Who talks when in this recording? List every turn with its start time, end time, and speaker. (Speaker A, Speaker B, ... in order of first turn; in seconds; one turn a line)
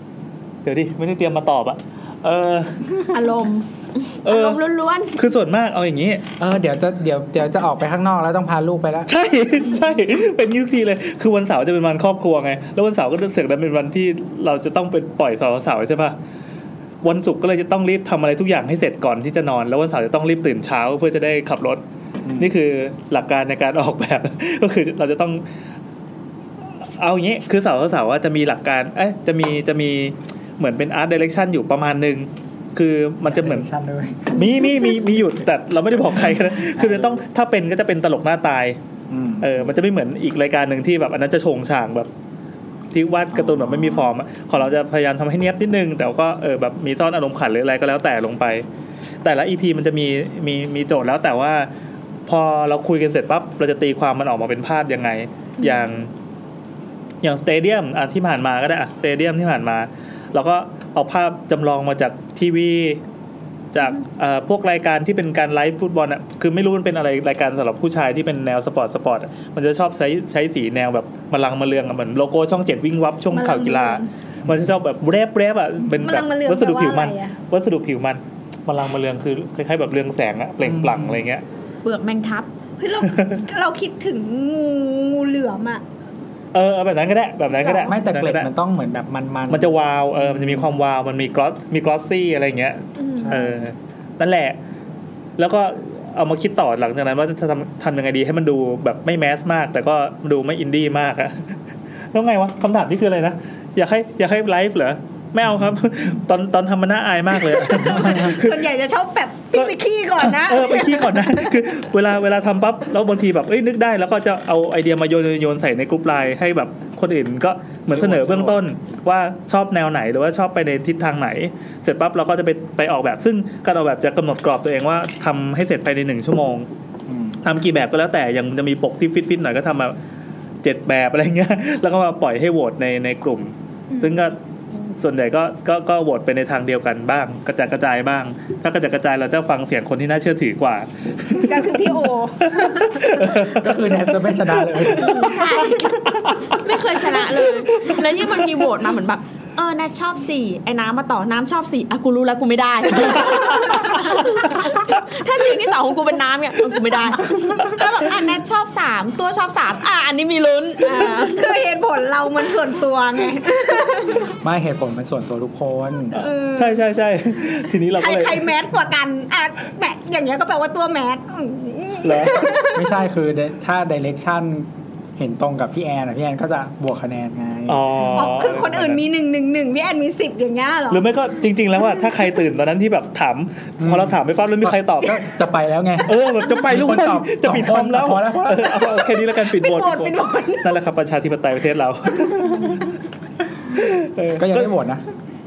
Speaker A: 0.6-3.2
Speaker B: 3.1-5.2
Speaker A: 4.2-4.6
Speaker A: 5.2-6.2
Speaker C: 6.4-9.1
Speaker A: 9.1-16.1
Speaker A: 17.0-21.8
Speaker C: 22.2-22.5
Speaker A: 22.4-25.4
Speaker A: 27.0-33.7
Speaker C: 33.2-34.5
Speaker A: 34.3-38.8
Speaker C: 36.8-37.2
Speaker C: 39.1-39.5
Speaker A: 39.4-42.1
Speaker A: 42.9-48.6
Speaker C: 43.3-44.1
Speaker A: 49.2-51.7
Speaker A: 52.3-56.1
Speaker D: 55.6-55.8
Speaker A: 57.2-63.0
Speaker A: 63.7-81.4
Speaker D: 73.3-74.1
Speaker D: 75.9-77.3
Speaker C: 80.6-81.2
Speaker B: 81.8-82.5
Speaker D: 82.8-85.8
Speaker A: 83.0-83.4
Speaker A: 86.5-88.5
Speaker D: 87.6-87.9
Speaker C: 87.8-90.7
Speaker A: 89.5-94.6
Speaker D: 93.0-93.5
Speaker C: 93.2-93.6
Speaker A: 95.4-101.6
Speaker A: 102.1-108.6
Speaker D: 107.7-111.5
Speaker A: 109.5-126.7
Speaker C: 117.9-118.6
Speaker C: 127.1-127.4
Speaker A: 127.4-129.9
Speaker A: 130.6-134.4
Speaker D: 133.9-134.2
Speaker A: 134.9-148.4
Speaker D: 141.4-143.2
Speaker C: 143.2-145.3
Speaker D: 144.9-146.1
Speaker B: 145.0-145.8
Speaker B: 146.5-161.4
Speaker D: 153.2-154.0
Speaker D: 160.8-164.3
Speaker C: 164.3-166.2
Speaker D: 166.1-166.8
Speaker A: 166.5-168.5
Speaker D: 167.9-172.9
Speaker A: 172.0-172.6
Speaker C: 172.7-178.1
Speaker A: 177.7-179.0
Speaker D: 178.1-181.0
Speaker A: 180.9-185.2
Speaker C: 183.8-188.9
Speaker A: 186.0-192.9
Speaker D: 189.4-190.8
Speaker D: 192.2-192.7
Speaker A: 193.7-194.7
Speaker C: 194.3-195.0